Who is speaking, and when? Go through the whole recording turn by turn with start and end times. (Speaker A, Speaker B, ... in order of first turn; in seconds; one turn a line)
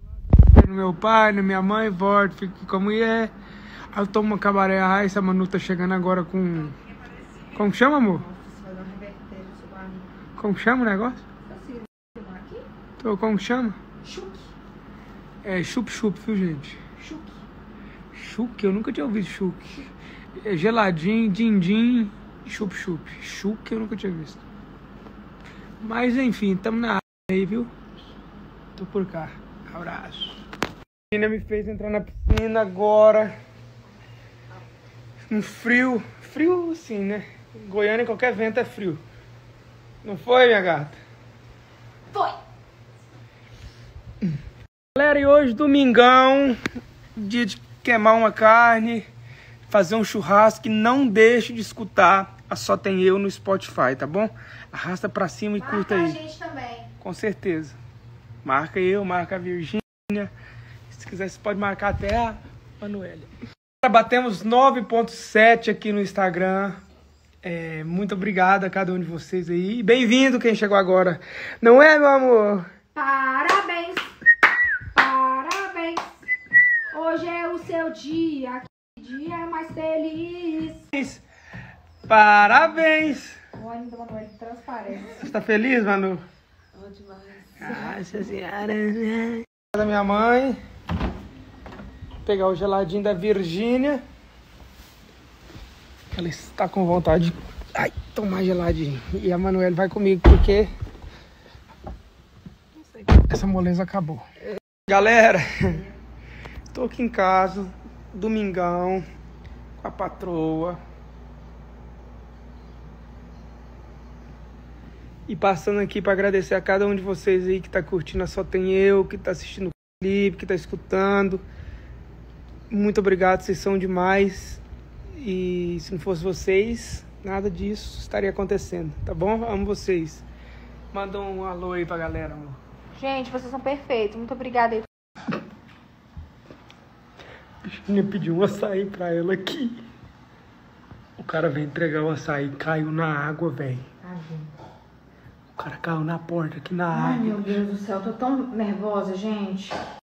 Speaker A: 0.3-3.3
Speaker A: 3.9-6.8
Speaker A: 7.5-8.3
Speaker B: 8.3-10.1
Speaker A: 10.4-11.2
Speaker B: 11.5-12.7
Speaker A: 13.0-13.8
Speaker B: 14.0-14.5
Speaker A: 15.4-16.8
Speaker B: 17.0-17.4
Speaker A: 18.1-19.9
Speaker A: 20.4-24.4
Speaker A: 25.8-27.7
Speaker A: 28.8-30.4
Speaker A: 31.1-33.3
Speaker A: 35.3-39.0
Speaker A: 40.0-41.0
Speaker A: 45.0-46.6
Speaker A: 47.1-49.1
Speaker A: 49.7-56.2
Speaker B: 55.6-56.9
Speaker A: 57.0-57.8
Speaker A: 58.4-60.3
Speaker A: 60.9-63.3
Speaker A: 63.8-66.8
Speaker A: 67.4-72.7
Speaker B: 73.0-74.1
Speaker B: 74.9-76.1
Speaker B: 76.9-80.8
Speaker A: 80.9-81.2
Speaker A: 82.0-83.4
Speaker B: 83.5-85.2
Speaker A: 85.1-86.2
Speaker B: 86.8-87.9
Speaker A: 87.6-90.6
Speaker A: 92.2-94.0
Speaker A: 96.1-100.7
Speaker A: 102.9-104.3
Speaker A: 104.9-105.9
Speaker A: 106.7-109.0
Speaker A: 109.8-110.8
Speaker A: 115.3-121.4
Speaker A: 122.7-124.6
Speaker A: 125.2-130.2
Speaker A: 130.9-132.6
Speaker B: 133.0-134.9
Speaker A: 137.6-139.8
Speaker A: 141.2-143.9
Speaker B: 144.0-144.5
Speaker A: 145.6-147.6
Speaker B: 146.9-149.8